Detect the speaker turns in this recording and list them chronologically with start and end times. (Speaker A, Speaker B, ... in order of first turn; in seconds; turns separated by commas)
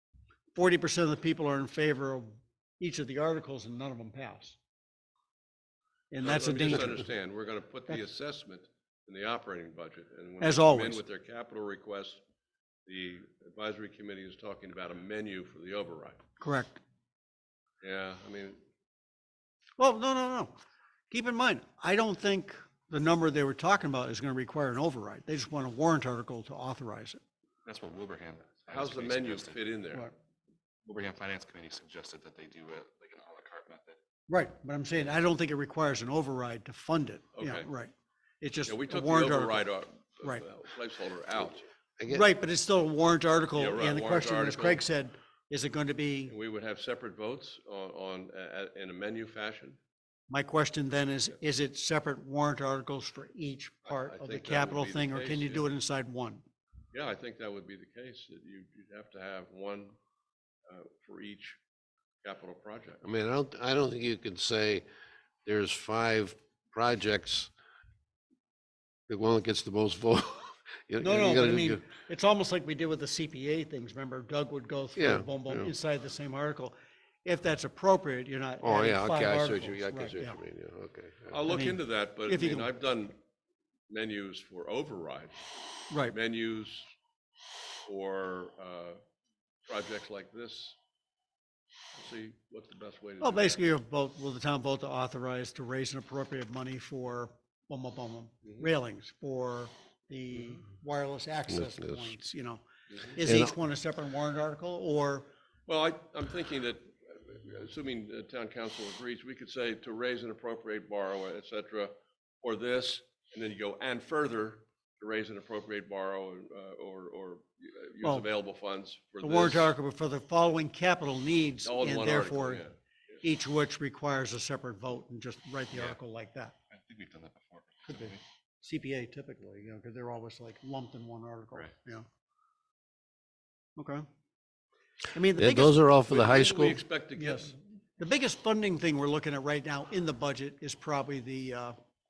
Speaker A: 0.5-4.6, Speaker A: 6.1-7.0, Speaker B: 6.2-12.2, Speaker A: 10.4-11.0, Speaker B: 12.8-16.2, Speaker A: 16.4-16.8, Speaker B: 17.8-18.6, Speaker A: 19.8-20.5, Speaker A: 21.1-27.2, Speaker C: 27.6-29.6, Speaker B: 28.7-30.1, Speaker C: 30.8-34.0, Speaker A: 34.3-39.6, Speaker B: 37.4-37.7, Speaker B: 38.7-41.6, Speaker D: 42.0-42.2, Speaker A: 42.1-46.3, Speaker B: 43.6-44.8, Speaker B: 46.3-49.8, Speaker A: 50.3-56.4, Speaker B: 53.9-55.7, Speaker B: 56.9-60.0, Speaker B: 60.7-61.6, Speaker B: 62.2-63.0, Speaker D: 63.0-64.8, Speaker D: 65.4-67.5, Speaker D: 69.1-71.8, Speaker A: 71.0-76.7, Speaker D: 75.0-75.7, Speaker A: 77.2-80.4, Speaker D: 78.6-81.4, Speaker B: 81.3-83.1, Speaker A: 81.5-82.7, Speaker B: 83.9-85.4, Speaker B: 86.0-86.8, Speaker B: 87.8-89.0, Speaker B: 89.6-90.7, Speaker B: 92.0-93.6, Speaker A: 93.2-102.6, Speaker D: 101.5-102.1, Speaker A: 103.1-105.3, Speaker D: 103.2-103.5, Speaker B: 105.7-119.7, Speaker A: 119.2-122.6, Speaker B: 121.6-122.7, Speaker A: 123.2-126.5, Speaker C: 126.7-128.2, Speaker A: 127.9-132.1, Speaker A: 133.8-134.1, Speaker A: 135.1-135.8, Speaker D: 135.3-136.8, Speaker B: 136.1-137.5, Speaker A: 137.1-141.8